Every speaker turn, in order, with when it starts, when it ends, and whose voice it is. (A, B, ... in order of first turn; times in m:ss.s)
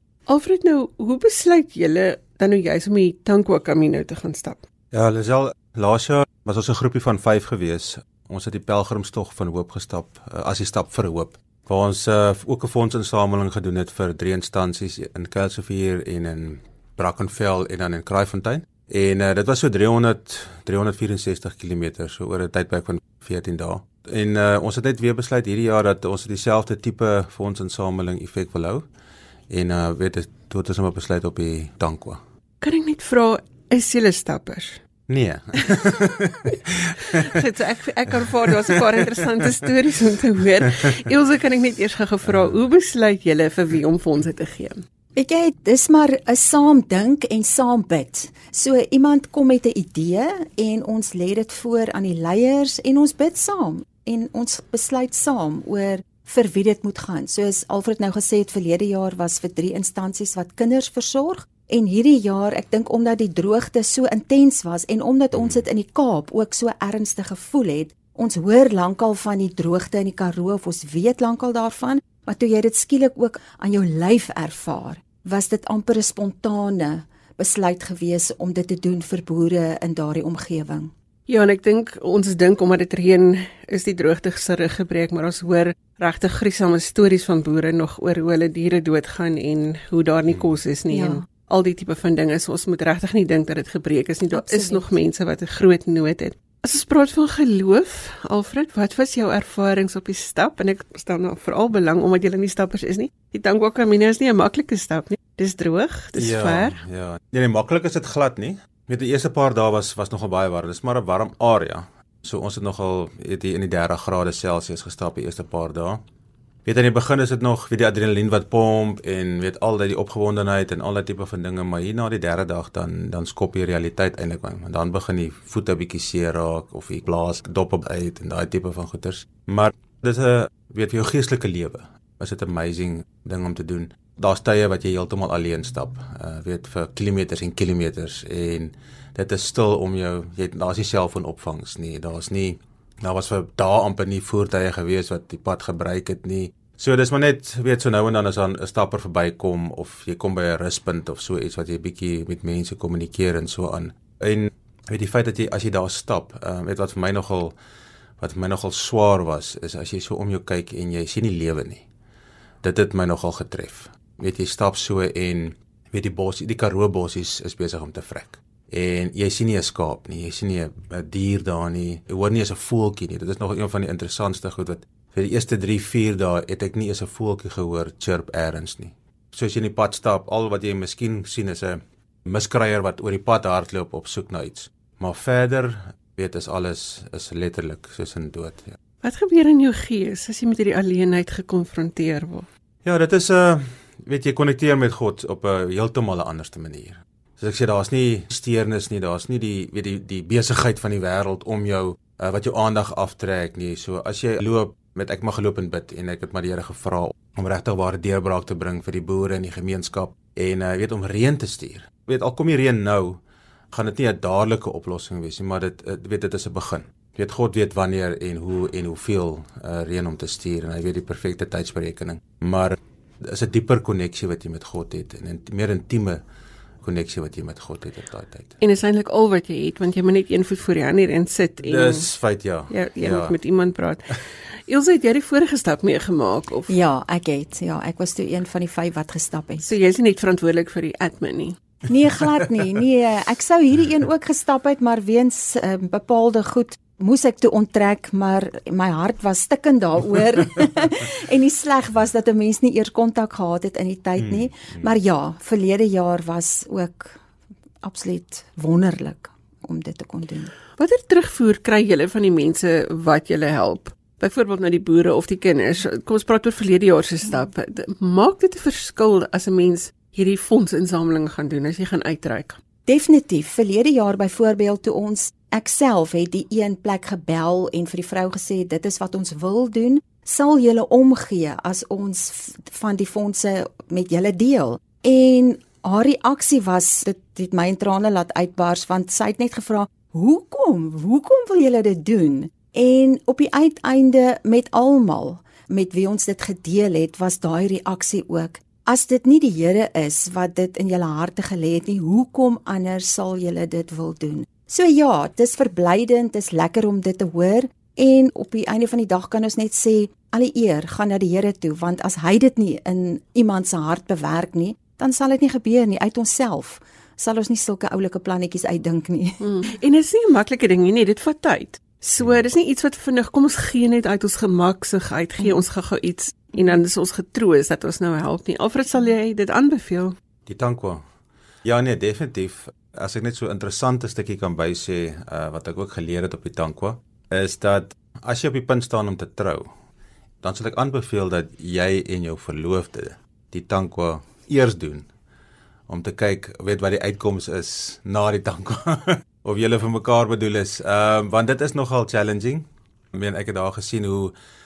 0:00.3-0:04.6 A
0:04.9-0:28.9 B
0:29.5-0:32.2 B
0:32.6-0:34.8 A
0:35.1-0:37.4 B
0:37.2-0:44.8 A
0:38.1-0:39.2 B
0:42.2-0:42.6 B
0:45.2-1:20.9 C
1:05.3-1:05.6 B
1:21.3-1:46.8 A
1:30.3-1:30.6 B
1:30.9-1:31.2 C
1:34.3-1:34.9 C
1:46.1-1:56.0 B
1:56.6-2:37.6 B
2:38.2-2:41.8 B
2:42.6-3:08.8 B
3:09.0-3:12.5 A
3:12.8-3:33.2 B
3:33.7-3:46.2 B
3:46.8-3:48.6 B
3:48.6-3:52.1 A
3:51.6-3:53.4 B
3:52.7-3:56.7 A
3:56.7-3:59.7 C
3:59.6-4:01.6 A
4:01.9-4:17.2 C
4:14.2-4:14.9 B
4:17.8-4:20.5 C
4:20.8-4:32.6 A
4:32.8-5:19.4 C
5:19.4-5:30.1 A
5:22.2-5:22.4 B
5:30.5-5:31.0 B
5:31.6-5:39.7 B
5:40.4-5:45.1 B
5:45.9-5:54.3 B